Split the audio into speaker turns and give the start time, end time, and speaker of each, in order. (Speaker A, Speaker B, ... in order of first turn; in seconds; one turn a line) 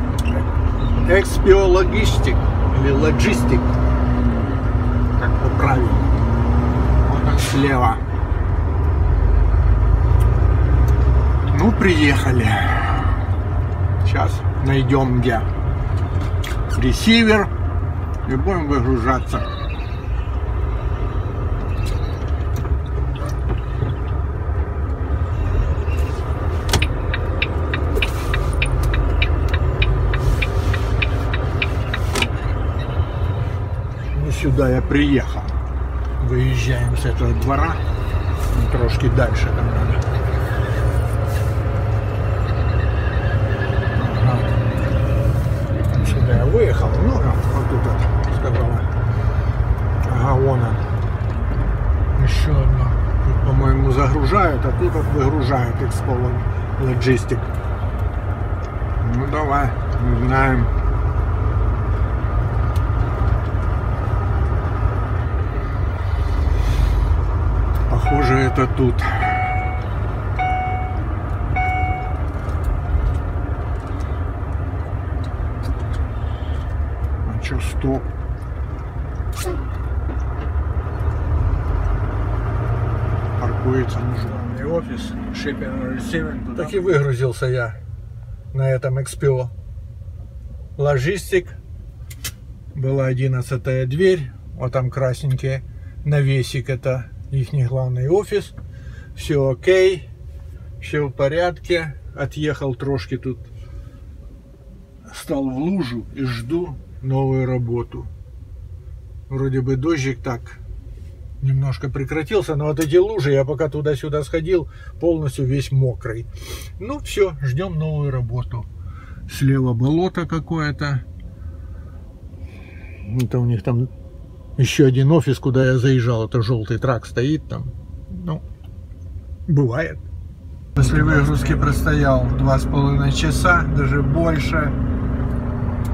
Speaker A: 1.0-3.7
Speaker A: 5.2-6.1
Speaker A: 7.0-8.0
Speaker A: 11.5-13.2
Speaker A: 14.0-15.5
Speaker A: 16.7-17.5
Speaker A: 18.2-19.7
Speaker A: 34.1-35.5
Speaker A: 36.2-37.8
Speaker A: 38.5-40.0
Speaker A: 44.0-44.5
Speaker A: 45.9-48.9
Speaker A: 50.0-50.8
Speaker A: 52.1-57.5
Speaker A: 59.0-60.7
Speaker A: 67.9-69.4
Speaker A: 77.2-78.1
Speaker A: 83.4-87.8
Speaker A: 88.5-89.5
Speaker A: 90.8-91.6
Speaker A: 92.7-98.6
Speaker A: 99.2-100.1
Speaker A: 100.8-103.5
Speaker A: 105.1-108.1
Speaker A: 109.3-110.6
Speaker A: 111.4-118.7
Speaker A: 119.3-121.0
Speaker A: 123.0-123.9
Speaker A: 124.6-128.4
Speaker A: 129.5-130.0
Speaker A: 130.8-134.8